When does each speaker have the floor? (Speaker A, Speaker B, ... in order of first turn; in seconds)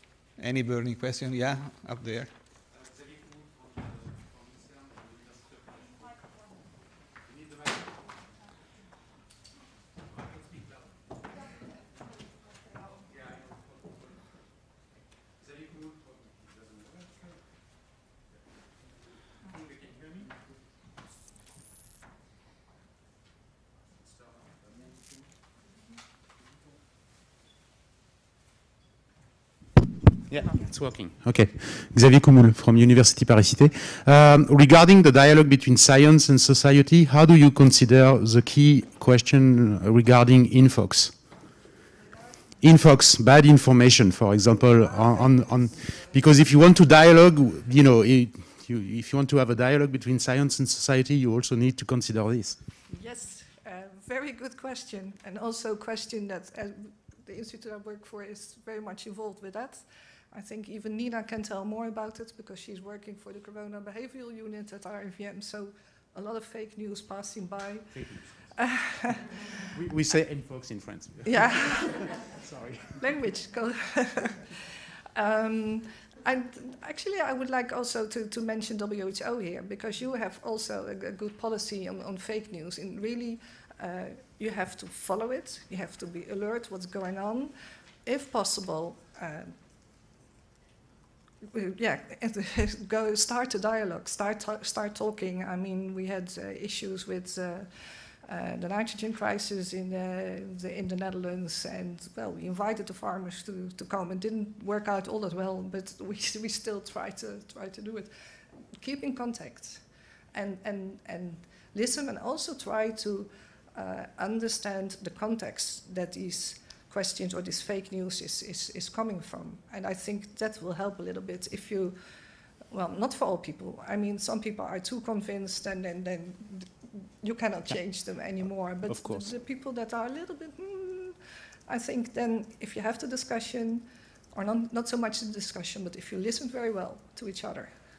Speaker A: 0.4-2.3
Speaker B: 30.3-41.5, 42.6-52.6, 67.9-68.5, 69.6-73.1, 128.9-129.2
Speaker C: 52.9-69.5, 71.2-71.8, 73.0-74.6, 75.1-87.5, 88.0-89.5, 91.5-108.1, 108.8-122.0, 122.7-137.7